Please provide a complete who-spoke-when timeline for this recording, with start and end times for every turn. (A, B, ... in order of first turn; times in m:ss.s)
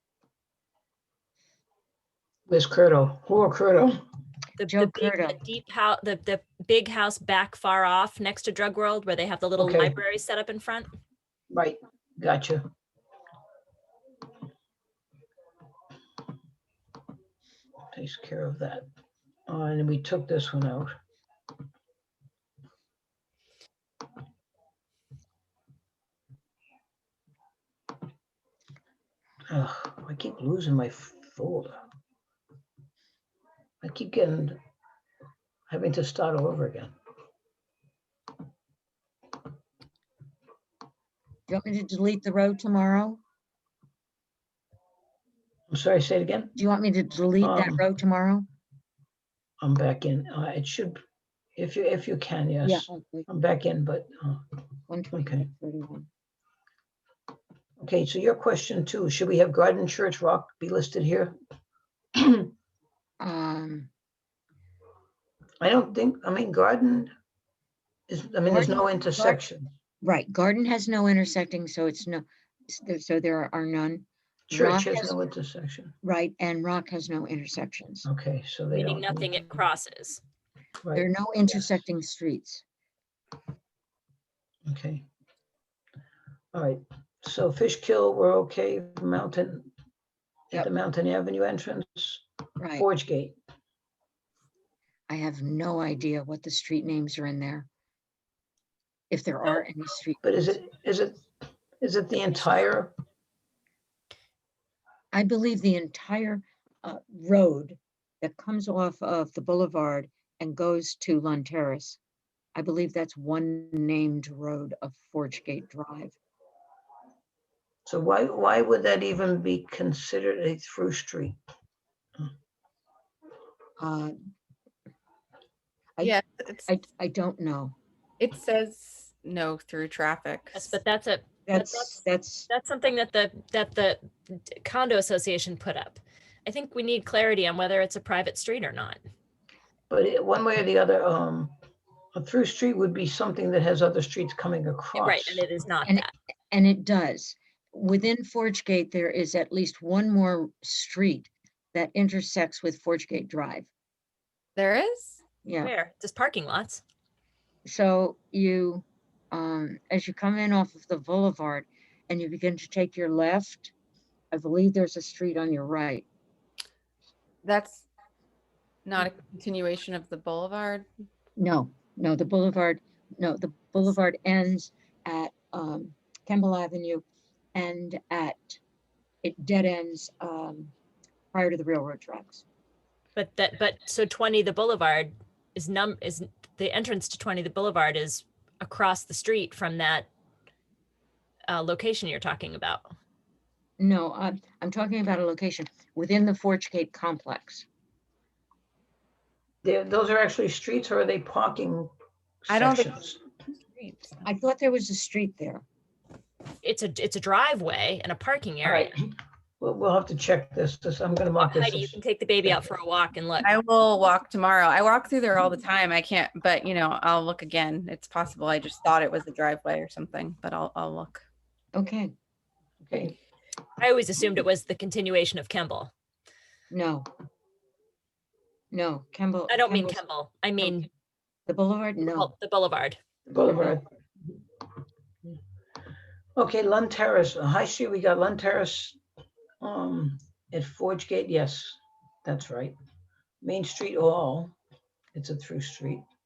0:02.5-0:04.0 A
0:04.6-0:10.9 B
0:04.6-0:05.4 C
0:09.6-0:10.0 A
0:11.5-0:12.7 A
0:17.9-0:18.8 A
0:19.5-0:20.9 A
0:29.5-0:31.8 A
0:33.8-0:34.6 A
0:35.7-0:36.9 A
0:41.5-0:43.2 C
0:45.7-0:46.5 A
0:46.6-0:48.5 C
0:47.4-0:47.8 A
0:49.6-0:51.0 A
0:51.6-0:54.4 A
0:52.6-0:53.3 C
0:54.9-0:56.1 C
0:55.1-0:55.4 A
0:57.8-1:01.4 A
1:02.2-1:02.5 A
1:03.2-1:03.9 C
1:05.6-1:07.1 A
1:08.1-1:09.7 A
1:08.5-1:09.4 C
1:10.0-1:15.2 C
1:14.5-1:16.0 A
1:16.0-1:18.1 C
1:18.1-1:19.4 A
1:18.7-1:20.2 B
1:20.8-1:21.1 A
1:21.0-1:22.6 C
1:24.7-1:25.1 A
1:26.5-1:29.7 A
1:30.5-1:32.2 A
1:32.6-1:32.9 C
1:32.8-1:33.4 A
1:35.1-1:37.7 C
1:39.1-1:40.5 C
1:40.2-1:41.2 A
1:41.8-1:43.0 A
1:45.1-1:52.0 C
1:52.6-1:56.2 C
1:57.9-2:01.4 A
2:03.8-2:04.2 C
2:06.0-2:06.7 D
2:06.7-2:07.8 C
2:08.2-2:10.8 D
2:10.6-2:19.0 B
2:11.5-2:12.5 C
2:19.9-2:21.5 A
2:22.2-2:25.4 A
2:24.9-2:26.1 B
2:25.9-2:33.7 C
2:34.6-2:35.2 D
2:35.4-2:35.7 C
2:35.6-2:36.8 B
2:37.6-2:43.7 C
2:44.3-2:46.1 C
2:47.4-2:47.9 D
2:48.8-2:50.9 D
2:51.4-2:58.6 C
2:59.2-3:00.7 C
3:01.3-3:02.4 C
3:03.2-3:10.1 B
3:11.5-3:12.9 B
3:13.8-3:17.7 C
3:19.6-3:21.9 A
3:22.4-3:23.2 A
3:22.5-3:23.0 D
3:23.8-3:25.6 C
3:26.6-3:28.9 B
3:28.6-3:29.0 A
3:29.6-3:32.0 A
3:31.4-3:33.5 B
3:33.4-3:41.2 D
3:41.7-3:42.1 C
3:42.9-3:43.1 A
3:43.8-3:45.9 B
3:46.7-3:47.1 C
3:48.7-3:50.0 C
3:49.5-3:50.9 B
3:51.5-3:52.3 C
3:52.0-3:53.0 B
3:53.3-3:53.8 A
3:53.5-3:53.8 C
3:56.4-3:59.0 A
3:59.6-4:02.8 A
4:03.4-4:04.6 A
4:05.2-4:06.1 A